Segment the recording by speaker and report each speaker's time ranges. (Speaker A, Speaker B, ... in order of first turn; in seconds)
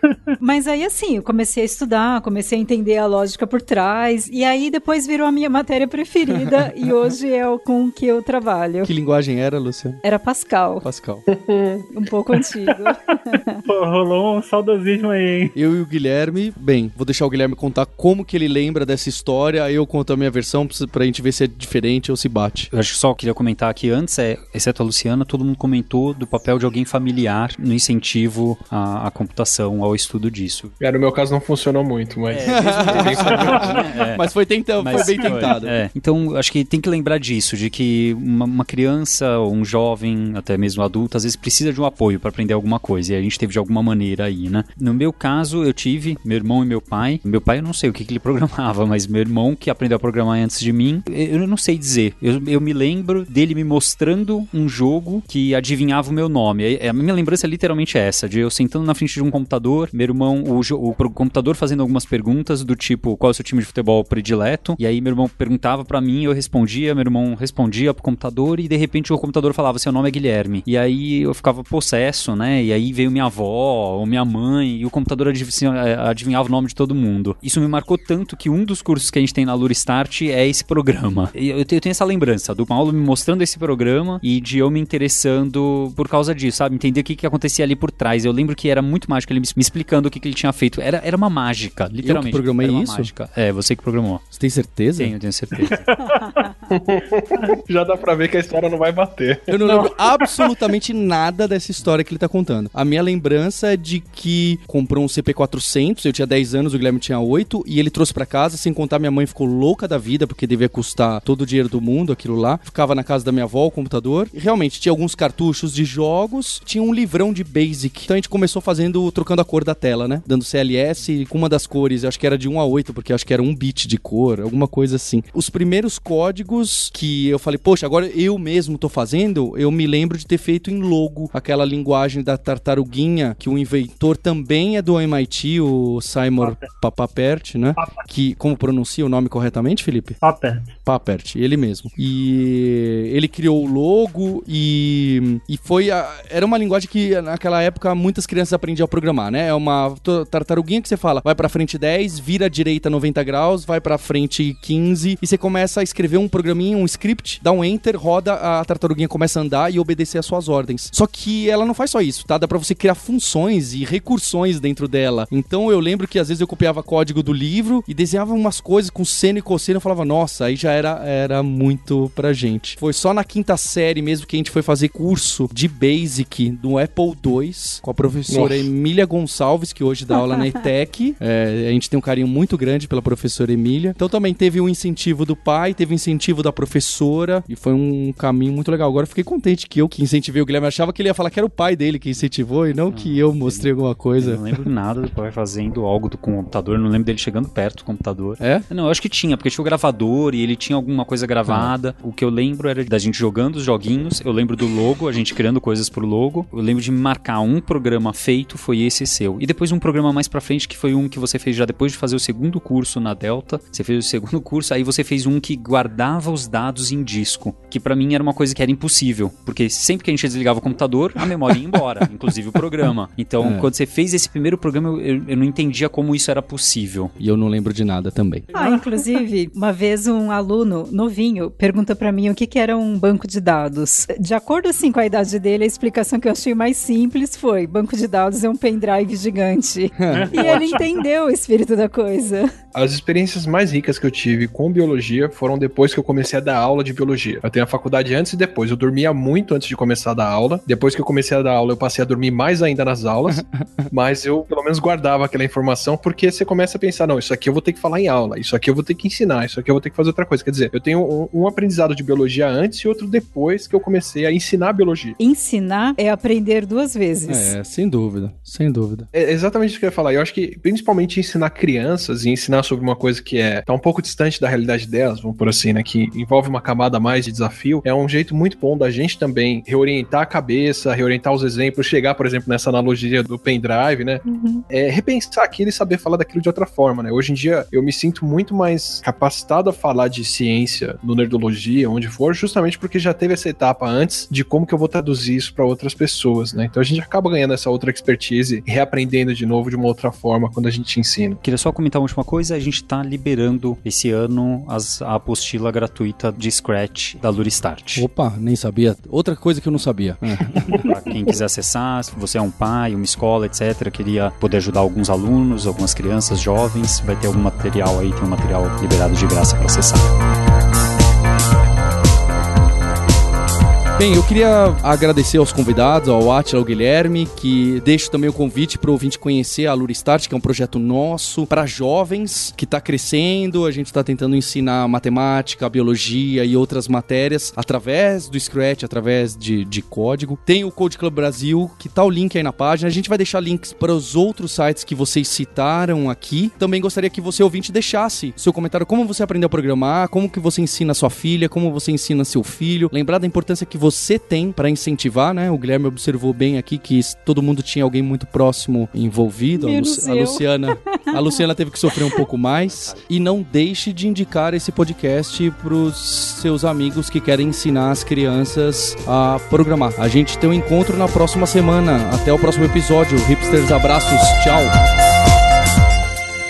Speaker A: 0.4-8.9, 10.0-10.8, 11.9-13.6, 228.5-242.5, 265.2-267.5, 284.3-284.6, 359.5-361.4
Speaker B: 6.3-6.7, 8.8-10.0, 10.8-11.2, 15.6-22.7, 32.4-35.8, 92.0-93.1, 94.3-95.1, 99.5-140.2, 140.8-194.5, 198.4-198.7, 201.4-201.7, 223.4-223.7, 227.2-228.5, 240.0-240.8, 253.3-253.9, 267.3-269.1, 307.9-310.7, 324.0-374.7
Speaker C: 11.3-11.9, 30.8-33.8, 96.7-100.0, 178.3-178.7, 242.7-265.2, 269.1-301.4
Speaker D: 13.7-15.5, 33.4-33.7, 95.7-96.5, 136.4-136.7, 137.8-138.0, 140.2-140.7, 228.5-229.1, 240.1-240.8
Speaker E: 22.7-30.7, 32.3-34.2, 34.8-94.2, 95.0-95.9, 192.9-227.1, 301.4-308.1, 310.7-320.1, 362.6-363.1